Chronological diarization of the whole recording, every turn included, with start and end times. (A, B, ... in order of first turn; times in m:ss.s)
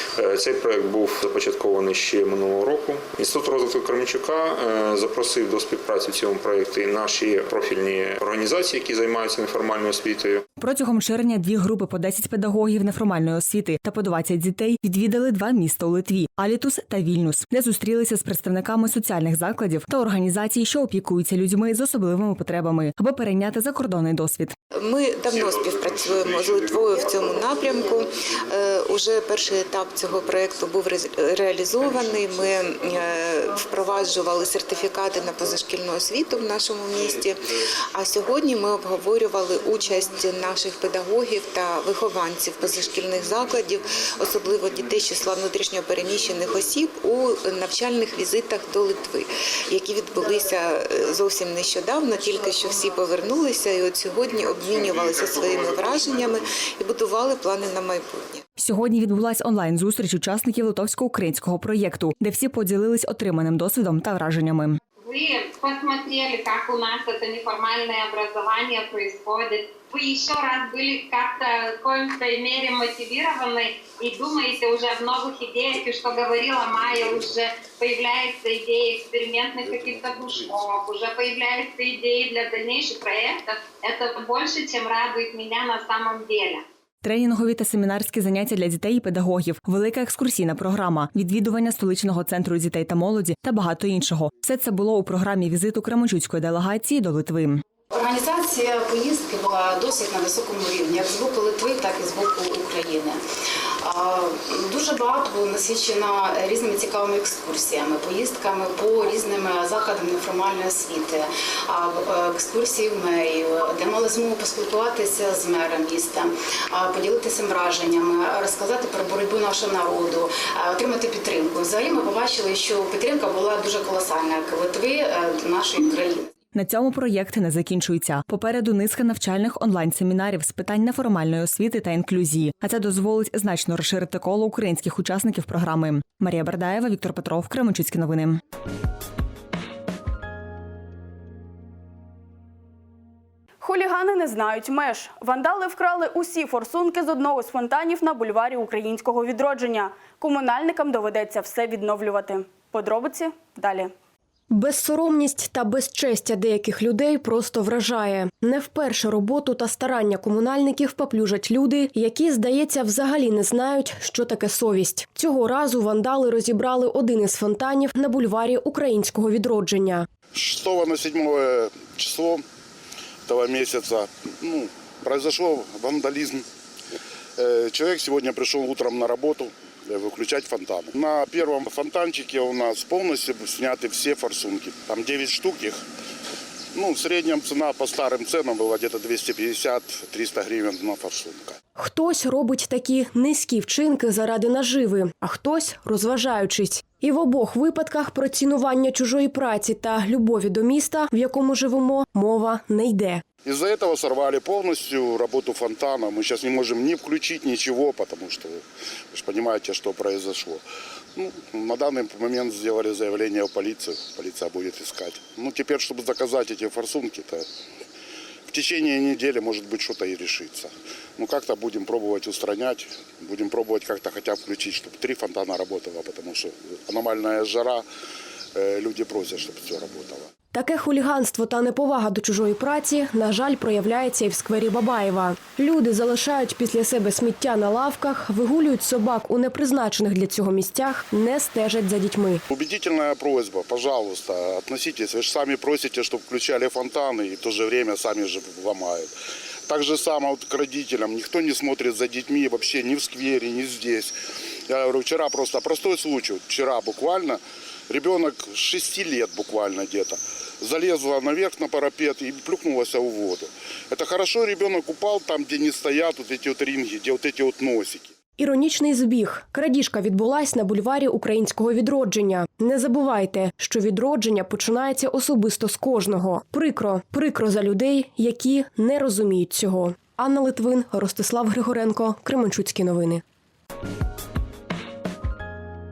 0:00.2-0:10.4 A
0:10.6-0:24.6 B
0:24.7-0:58.4 C
0:58.6-1:04.8 B
1:05.0-1:26.6 D
1:27.0-1:37.6 B
1:37.9-1:43.2 E
1:43.8-2:06.3 E
2:06.5-2:18.4 B
2:23.6-2:33.9 F
2:34.5-2:50.1 G
2:50.3-2:52.4 H
2:53.3-2:56.4 H
2:57.4-3:05.8 H
3:06.8-3:11.6 H
3:11.8-3:23.2 G
3:23.5-3:30.6 H
3:31.2-3:37.5 H
3:38.5-3:47.8 H
3:48.6-3:50.3 H
3:50.5-4:02.4 G
4:02.5-4:09.1 H
4:09.7-4:14.1 H
4:14.7-4:28.1 H
4:28.4-4:43.2 G